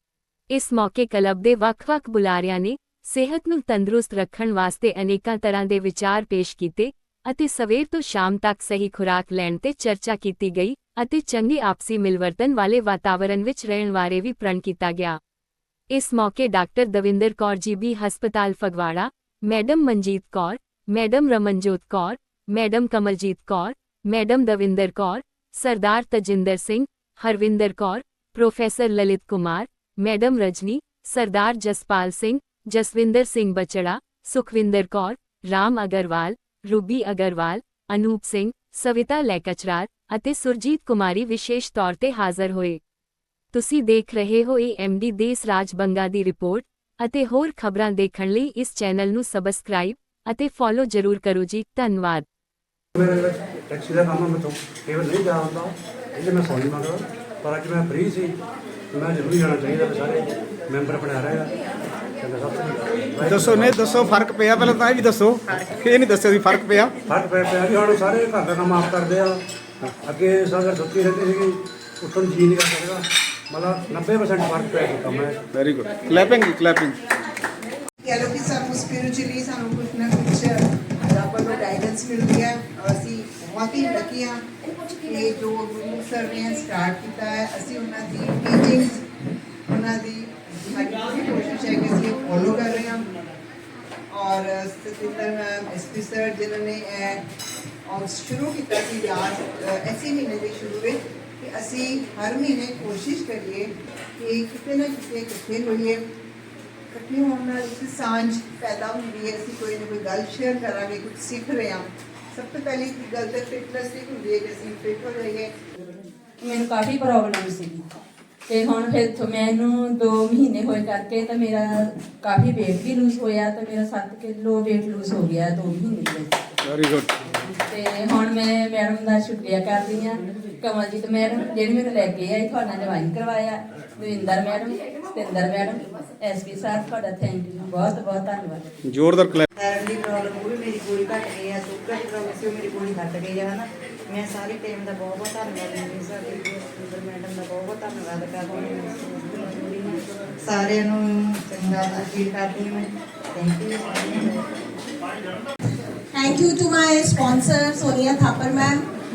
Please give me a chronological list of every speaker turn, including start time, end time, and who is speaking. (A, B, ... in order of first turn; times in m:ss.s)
0:00.5-0:15.2 A
0:15.9-0:42.8 A
0:43.5-0:52.3 A
0:53.0-0:58.4 B
0:58.9-1:01.5 B
1:02.2-1:03.8 B
1:03.3-1:06.9 C
1:07.1-1:09.4 B
1:10.0-1:15.4 B
1:15.5-1:17.0 C
1:18.0-1:20.5 D
1:21.1-1:24.4 D
1:25.0-1:29.0 D
1:29.7-1:33.1 D
1:34.1-1:37.2 D
1:37.9-1:43.7 D
1:44.2-1:46.0 D
1:46.9-1:55.5 D
1:56.4-1:57.8 E
1:58.5-2:06.3 E
2:06.7-2:07.1 C
2:07.6-2:18.7 E
2:18.9-2:19.4 C
2:19.6-2:34.4 F
2:36.1-2:38.8 G